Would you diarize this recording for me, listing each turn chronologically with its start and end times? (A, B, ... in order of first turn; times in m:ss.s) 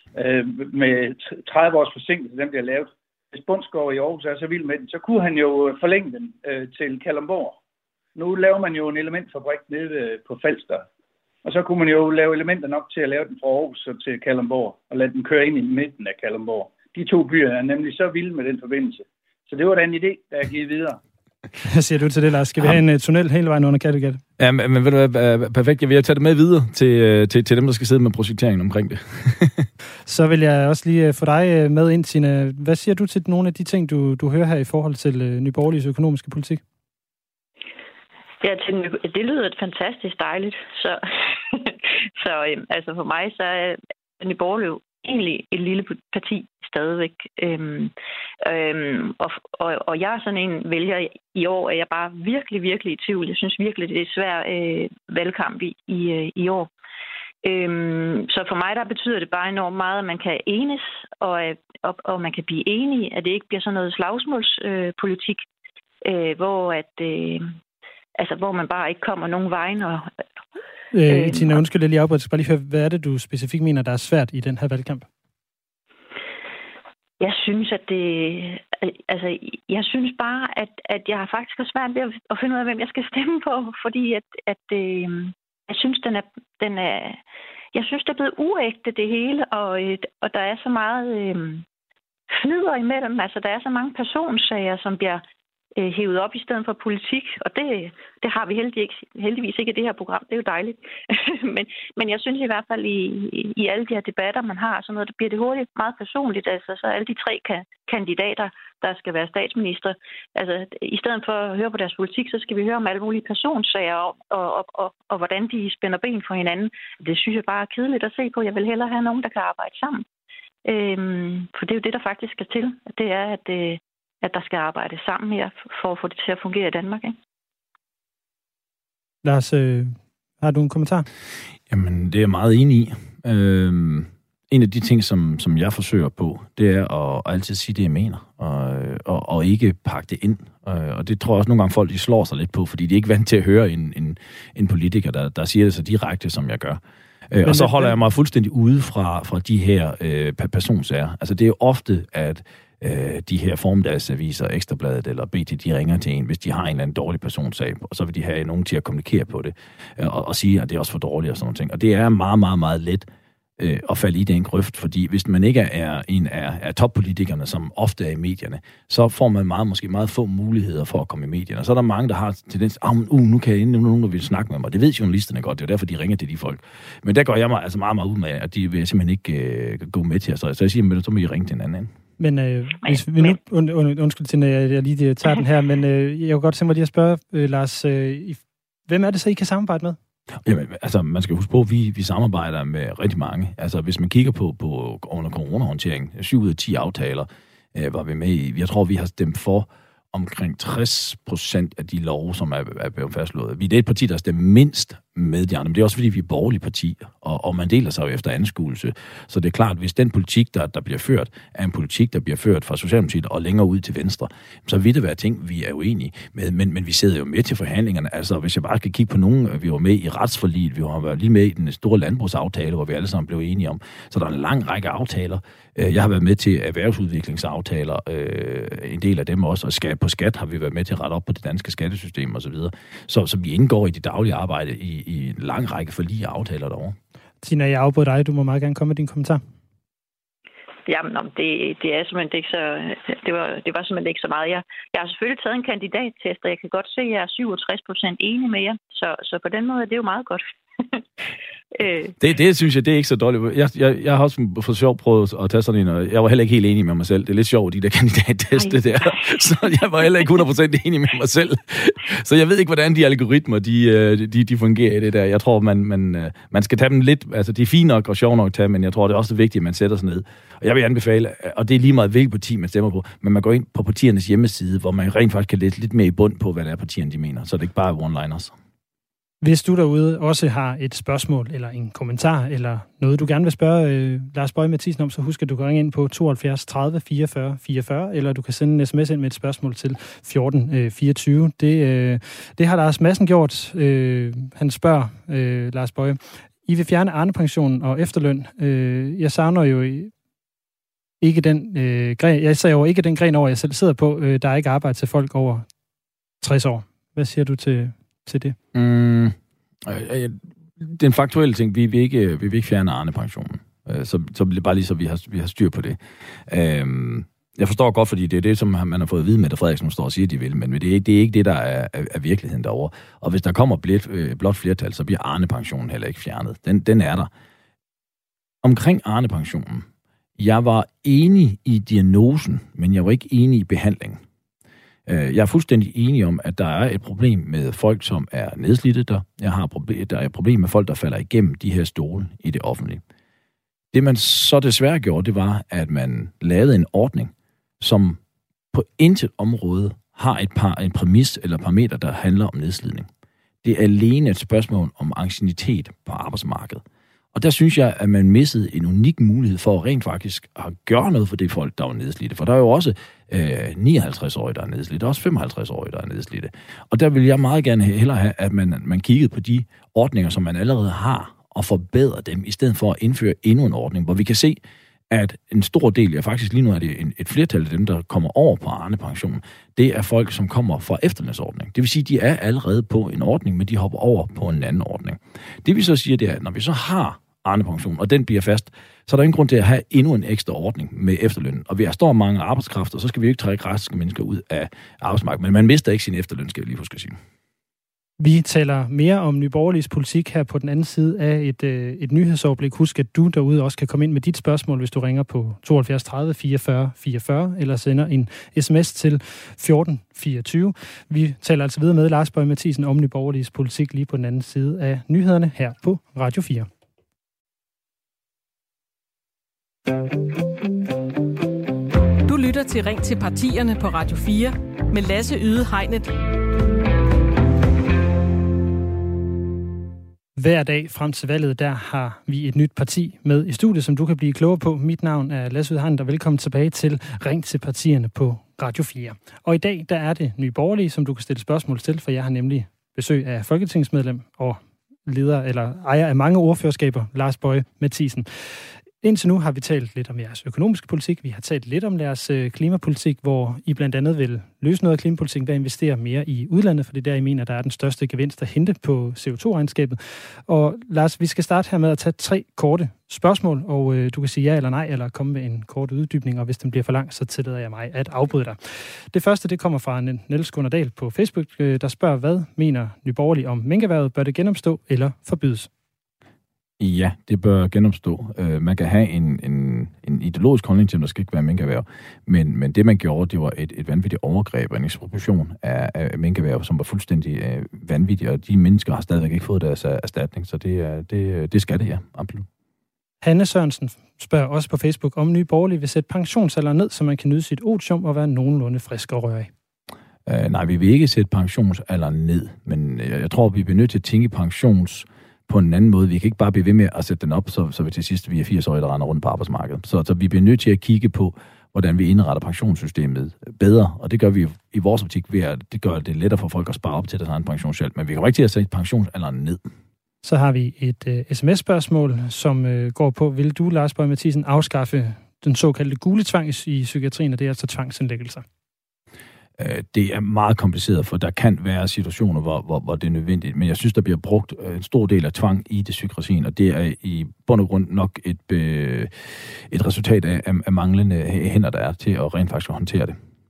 0:00.2-0:07.6 A
0:08.2-0:10.9 A
0:11.4-0:21.0 A
0:21.6-0:24.2 B
0:24.4-0:29.7 C
0:30.1-0:36.6 B
0:38.4-0:56.7 D
0:57.4-1:05.4 D
1:06.0-1:07.5 D
1:08.2-1:10.1 D
1:10.9-1:15.1 B
1:11.1-1:11.6 D
1:17.2-1:27.2 D
1:27.7-1:31.6 D
1:32.3-1:35.2 D
1:35.8-2:00.0 D
2:00.6-2:07.2 D
2:09.2-2:11.1 B
2:11.7-2:26.8 C
2:27.3-2:43.1 C
2:27.4-2:28.0 B
2:43.6-3:01.9 C
3:02.2-3:10.0 B
3:10.4-3:57.0 C
3:57.4-3:59.4 B
4:00.9-4:11.0 D
4:11.7-4:12.1 D
4:12.2-4:38.5 C
4:18.6-4:19.1 D
4:39.4-5:00.1 B
5:01.2-5:05.7 B
5:06.4-5:08.6 B
5:08.7-5:27.3 C
5:28.6-5:29.9 C
5:30.4-5:34.2 C
5:35.1-5:43.0 C
5:43.9-5:48.2 C
5:48.7-5:53.1 C
5:53.6-5:56.8 C
5:57.3-6:14.6 C
6:15.1-6:37.2 C
6:38.2-6:56.7 B
7:02.3-7:06.1 E
7:10.4-7:55.7 B
7:56.8-8:12.5 C
8:13.2-8:19.5 B
8:20.3-8:39.6 C
8:40.2-8:48.4 B
8:49.6-9:03.2 C